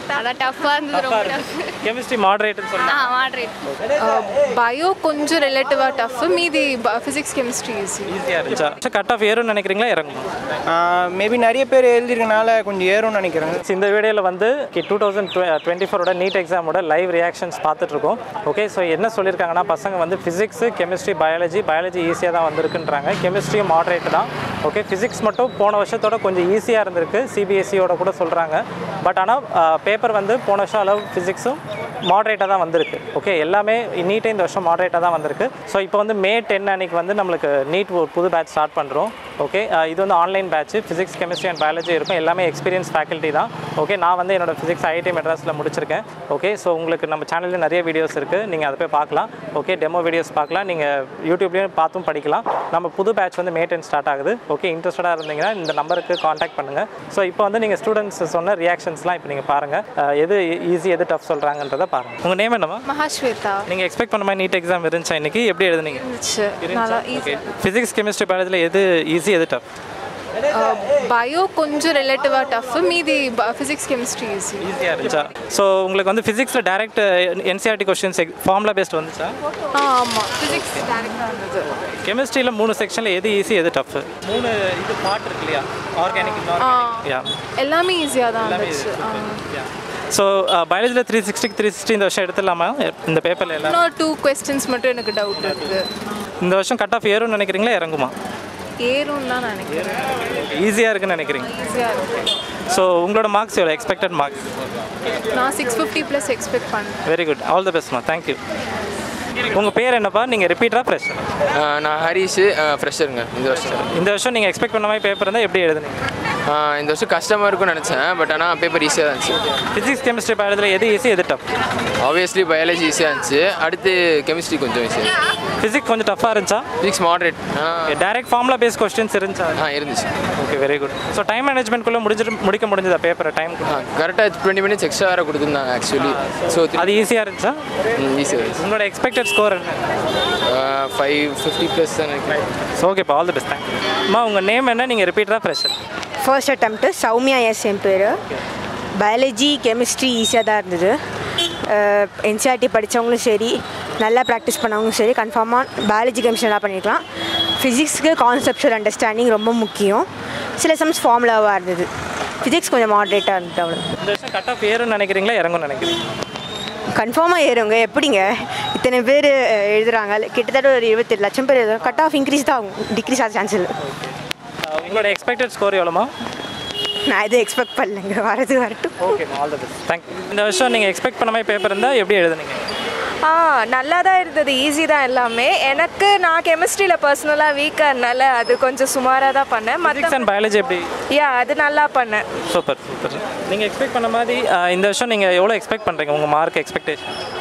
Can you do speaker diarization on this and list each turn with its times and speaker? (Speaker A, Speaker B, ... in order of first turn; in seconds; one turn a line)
Speaker A: 0.2-1.5
Speaker B: 0.9-3.1
Speaker A: 2.8-3.5
Speaker C: 4.0-8.1
Speaker B: 8.1-10.3
Speaker D: 10.8-13.6
Speaker B: 13.6-62.9
Speaker C: 62.9-63.7
Speaker B: 63.7-66.0
Speaker C: 66.0-67.4
Speaker B: 66.6-69.7
Speaker C: 70.5-74.7
Speaker B: 74.6-79.4
Speaker C: 79.7-81.7
Speaker B: 80.5-80.9
Speaker B: 81.7-87.3
Speaker C: 86.5-87.1
Speaker C: 87.6-89.4
Speaker B: 88.4-93.8
Speaker C: 93.6-95.9
Speaker B: 96.4-98.1
Speaker C: 98.8-100.2
Speaker B: 99.8-101.5
Speaker C: 101.5-102.3
Speaker B: 102.7-104.5
Speaker C: 105.3-107.0
Speaker B: 107.1-108.4
Speaker B: 109.5-111.3
Speaker E: 111.5-113.9
Speaker B: 113.9-116.0
Speaker E: 116.5-119.4
Speaker B: 119.7-121.4
Speaker E: 122.0-125.1
Speaker B: 125.6-126.7
Speaker E: 126.8-128.0
Speaker B: 127.9-129.6
Speaker E: 129.6-130.1
Speaker B: 130.4-133.8
Speaker E: 133.7-137.0
Speaker B: 136.0-137.6
Speaker E: 138.0-138.6
Speaker B: 138.6-139.8
Speaker E: 140.5-142.5
Speaker B: 142.8-145.8
Speaker F: 146.2-148.2
Speaker F: 149.0-151.0
Speaker F: 151.7-157.0
Speaker F: 157.6-160.1
Speaker F: 160.6-161.9
Speaker F: 162.4-163.9
Speaker B: 164.0-166.0
Speaker F: 166.9-173.7
Speaker B: 173.8-176.1
Speaker F: 177.1-179.0
Speaker B: 179.0-182.6
Speaker G: 183.2-190.3
Speaker B: 189.9-190.9
Speaker G: 191.1-192.3
Speaker B: 192.4-197.1